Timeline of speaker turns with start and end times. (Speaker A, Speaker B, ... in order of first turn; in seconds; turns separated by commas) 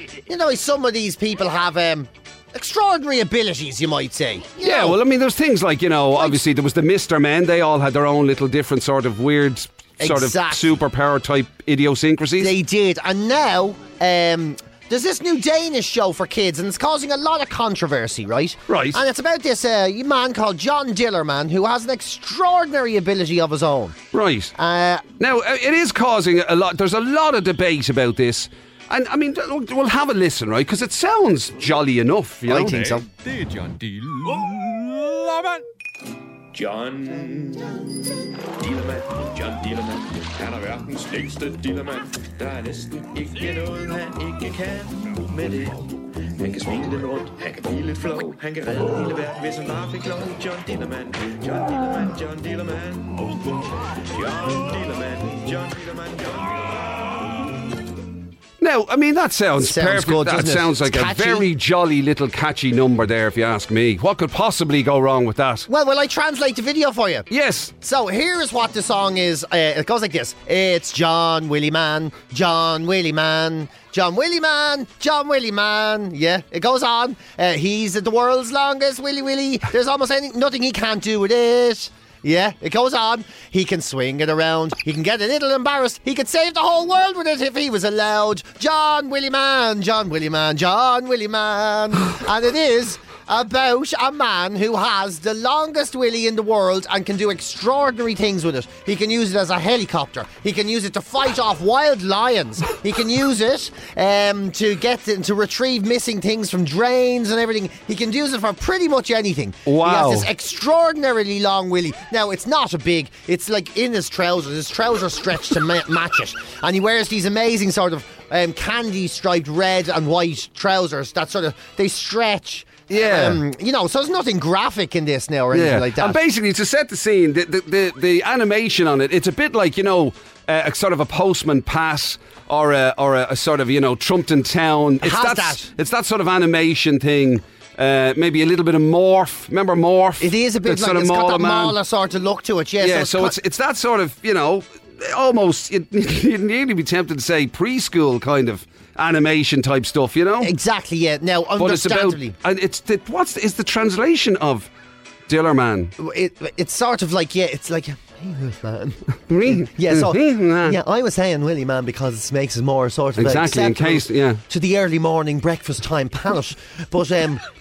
Speaker A: 0.3-5.0, Speaker B: 4.6-12.5, Speaker A: 6.2-6.4, Speaker A: 10.0-10.7, Speaker A: 12.4-24.0, Speaker B: 18.7-19.0, Speaker B: 24.1-24.5, Speaker A: 24.6-25.0, Speaker B: 25.2-32.9, Speaker A: 32.5-33.0, Speaker C: 32.7-35.6, Speaker C: 36.5-57.5, Speaker B: 58.6-65.7, Speaker A: 59.6-61.5, Speaker A: 65.7-67.3, Speaker B: 67.3-67.7, Speaker A: 67.8-126.2, Speaker B: 109.7-110.3, Speaker B: 122.9-123.4, Speaker B: 125.5-141.8, Speaker A: 135.0-135.7, Speaker A: 140.2-143.3, Speaker B: 142.8-150.5, Speaker A: 150.4-152.3, Speaker B: 151.6-154.7, Speaker B: 155.3-155.9, Speaker A: 156.0-167.4, Speaker B: 159.3-160.8, Speaker B: 163.2-164.4